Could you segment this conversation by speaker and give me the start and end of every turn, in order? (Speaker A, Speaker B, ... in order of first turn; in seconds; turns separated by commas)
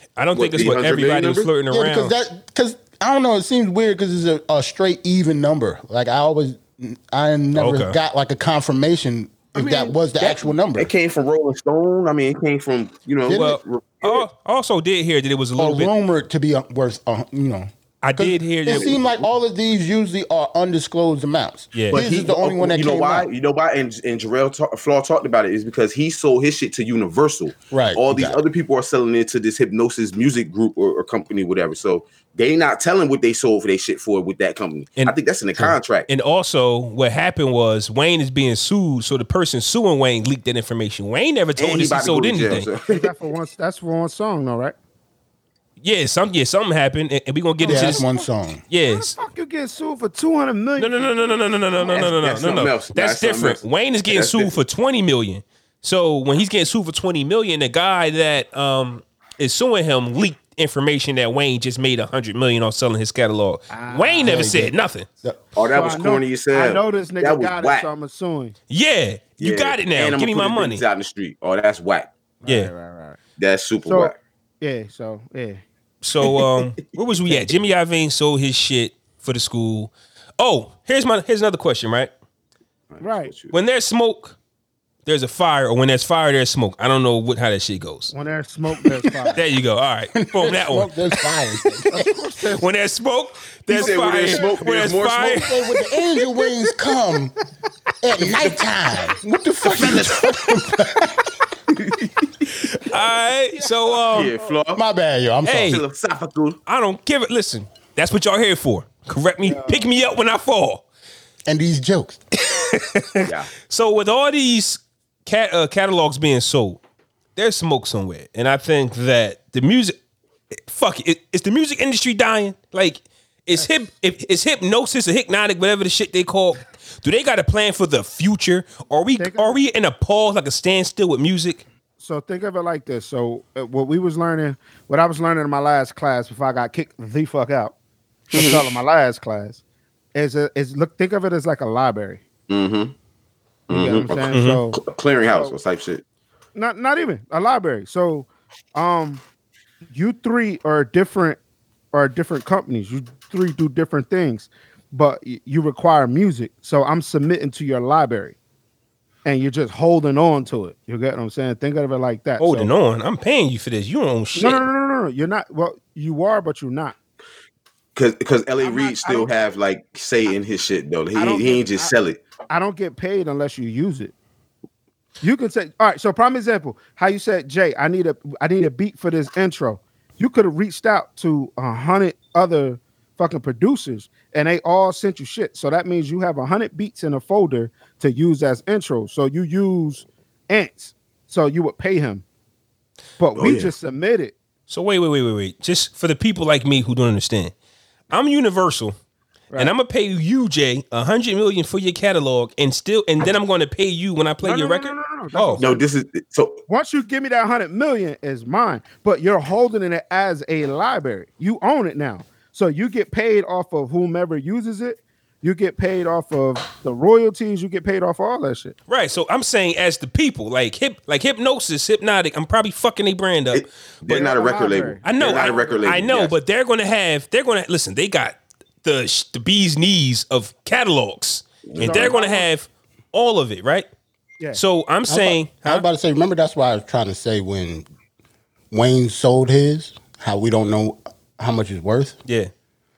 Speaker A: 0.2-2.1, Speaker B: 0.3-1.5, Speaker C: 1.7-10.9, Speaker A: 7.5-8.0, Speaker B: 9.6-14.3, Speaker C: 13.3-13.6, Speaker A: 13.3-15.9, Speaker C: 15.6-23.3, Speaker A: 18.0-19.0, Speaker B: 18.7-19.2, Speaker A: 21.7-22.0, Speaker B: 21.9-36.1, Speaker C: 27.7-28.4, Speaker A: 35.0-42.7, Speaker B: 41.6-43.1, Speaker D: 42.9-44.8, Speaker A: 45.8-48.1, Speaker D: 47.6-48.3, Speaker C: 47.6-48.6, Speaker A: 48.7-49.2, Speaker D: 48.8-52.0, Speaker A: 50.8-65.1, Speaker B: 51.8-54.6, Speaker D: 63.7-64.6, Speaker C: 64.2-65.4, Speaker B: 65.5-67.9, Speaker D: 65.7-68.5, Speaker A: 68.7-70.8, Speaker B: 69.4-72.1, Speaker D: 72.4-73.2, Speaker A: 72.5-72.7, Speaker B: 73.4-74.2, Speaker D: 73.8-75.6, Speaker A: 76.0-82.1, Speaker B: 82.9-83.6, Speaker D: 83.0-83.3, Speaker A: 83.5-84.4, Speaker A: 85.1-88.1, Speaker D: 88.1-89.4, Speaker A: 89.3-91.0, Speaker C: 90.2-92.1, Speaker D: 91.9-92.7, Speaker A: 92.6-95.5, Speaker B: 93.7-95.4, Speaker D: 93.9-94.4, Speaker C: 95.3-97.3, Speaker C: 98.0-101.3, Speaker B: 101.7-102.1, Speaker A: 102.7-104.3, Speaker B: 104.1-104.8, Speaker C: 104.7-105.8, Speaker A: 105.5-105.8, Speaker B: 105.7-106.6, Speaker A: 106.7-110.8, Speaker D: 109.4-109.9, Speaker C: 111.5-112.2, Speaker A: 112.4-116.8, Speaker B: 113.2-113.5, Speaker A: 117.4-120.0, Speaker A: 120.7-131.6, Speaker D: 129.2-129.6, Speaker D: 132.0-137.7, Speaker D: 138.3-139.6, Speaker B: 138.3-138.7, Speaker D: 140.2-142.2, Speaker B: 142.5-142.9, Speaker D: 143.7-145.6, Speaker B: 143.7-146.0, Speaker A: 144.3-144.6, Speaker D: 146.6-149.2, Speaker D: 149.9-151.4, Speaker D: 151.9-158.4, Speaker D: 159.2-162.7, Speaker A: 162.4-164.6, Speaker D: 164.4-166.9, Speaker B: 167.9-172.2, Speaker D: 168.6-169.3, Speaker D: 171.2-171.9, Speaker D: 172.5-174.1, Speaker D: 175.2-192.2, Speaker D: 193.2-194.3, Speaker B: 193.4-193.7, Speaker A: 194.7-197.5, Speaker A: 198.1-198.9, Speaker A: 199.6-205.6, Speaker D: 204.4-205.8, Speaker B: 205.6-206.6, Speaker D: 206.7-218.8, Speaker A: 218.9-223.7, Speaker B: 223.5-226.3, Speaker D: 224.1-225.9, Speaker A: 225.0-233.9, Speaker B: 231.7-232.2, Speaker D: 231.8-232.5, Speaker A: 234.6-235.9, Speaker C: 235.1-237.9, Speaker C: 238.7-242.2